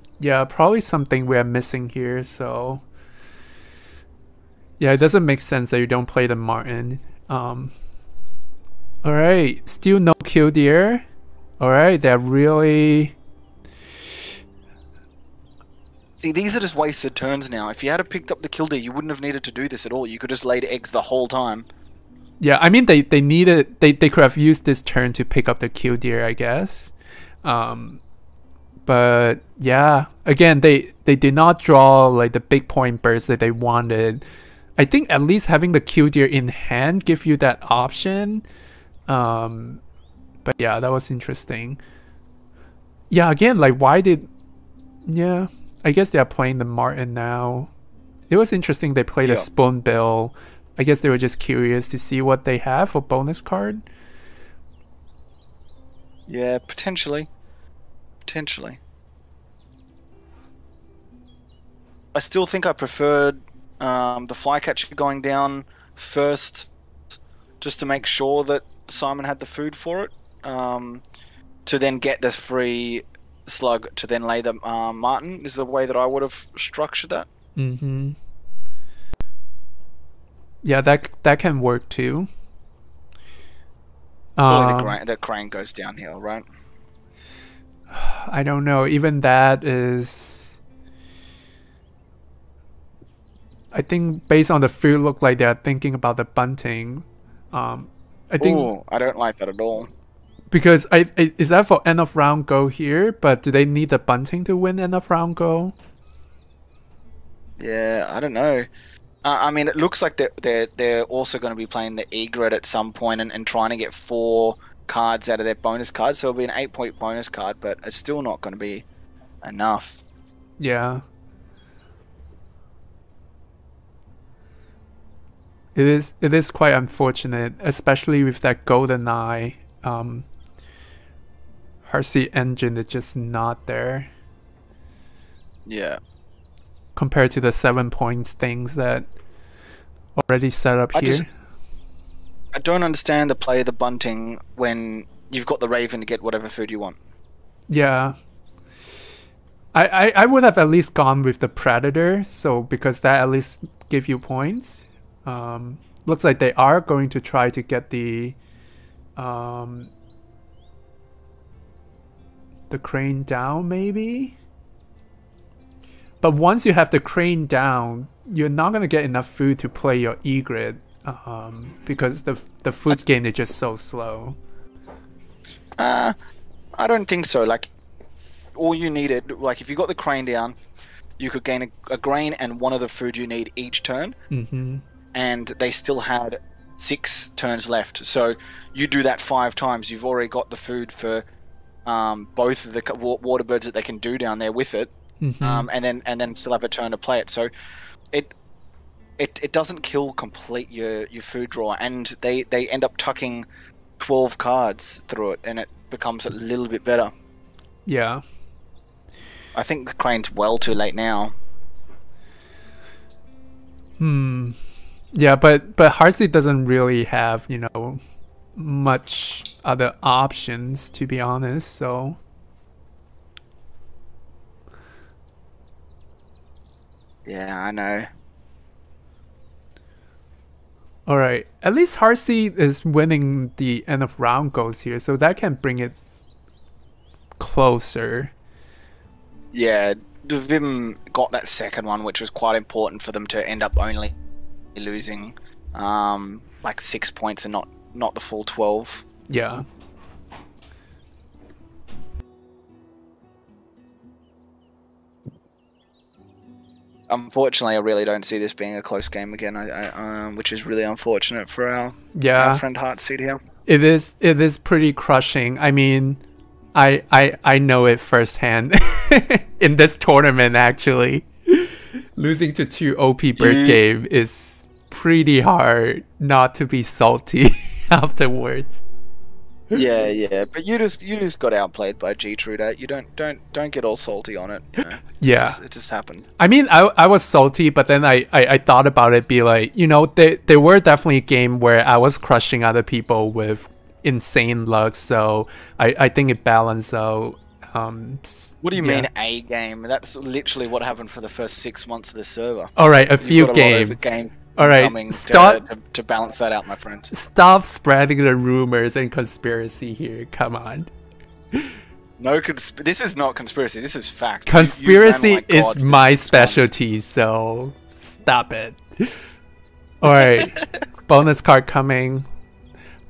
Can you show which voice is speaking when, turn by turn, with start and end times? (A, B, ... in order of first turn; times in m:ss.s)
0:00.2-0:02.8 A
0:04.8-0:07.7 A
0:09.0-0:11.0 A
0:11.6-0:13.1 A
0:16.2-0:21.7 B
0:22.4-0:26.9 A
0:27.4-0:28.0 A
0:28.8-0:34.2 A
0:34.8-0:38.4 A
0:39.1-0:39.8 A
0:40.4-0:41.8 A
0:43.1-0:44.3 A
0:45.1-0:47.7 A
0:48.3-0:53.8 A
0:56.3-0:57.3 B
0:58.2-0:58.8 B
1:02.1-1:06.7 B
1:07.6-1:11.0 B
1:11.6-1:17.3 B
1:17.6-1:18.2 A
1:20.6-1:22.3 A
1:24.4-1:25.0 A
1:24.5-1:26.4 B
1:27.9-1:30.6 A
1:33.7-1:38.7 A
1:38.4-1:39.9 B
1:40.5-1:45.7 A
1:47.6-1:48.7 B
1:49.2-1:58.8 B
1:59.4-2:00.0 B
2:00.6-2:01.0 A
2:05.7-2:10.3 A
2:11.8-2:14.1 A
2:15.6-2:16.0 B
2:17.0-2:19.1 A
2:20.2-2:21.3 A
2:20.9-2:21.2 B
2:22.5-2:27.0 B
2:27.7-2:28.2 A
2:29.7-2:38.4 A
2:39.2-2:39.9 A
2:42.7-2:44.3 A
2:46.2-2:54.4 A
2:55.8-2:56.2 B
2:56.8-2:57.7 B
2:58.6-3:00.6 B
3:01.2-3:04.2 B
3:04.3-3:04.8 A
3:05.1-3:11.2 B
3:11.8-3:17.5 B
3:15.2-3:15.7 A
3:19.2-3:23.4 B
3:24.0-3:27.1 B
3:27.8-3:28.2 A
3:29.5-3:31.3 B
3:34.0-3:34.6 A
3:35.1-3:38.0 A
3:38.6-3:42.2 A
3:47.2-3:48.1 B
3:51.0-3:55.9 A
3:57.4-3:58.3 A
3:59.5-4:04.2 B
4:04.7-4:09.0 B
4:09.3-4:09.6 A
4:17.1-4:23.4 B
4:22.1-4:22.6 A
4:23.7-4:26.2 A
4:26.7-4:38.8 A
4:33.4-4:33.8 B
4:39.7-4:46.3 B
4:45.2-4:45.6 A
4:46.4-4:59.1 A
4:58.6-5:07.1 B
5:02.8-5:04.0 A
5:04.6-5:05.6 A
5:07.1-5:10.9 A
5:12.2-5:16.7 B
5:14.4-5:19.2 A
5:20.0-5:22.2 A
5:20.0-5:20.6 B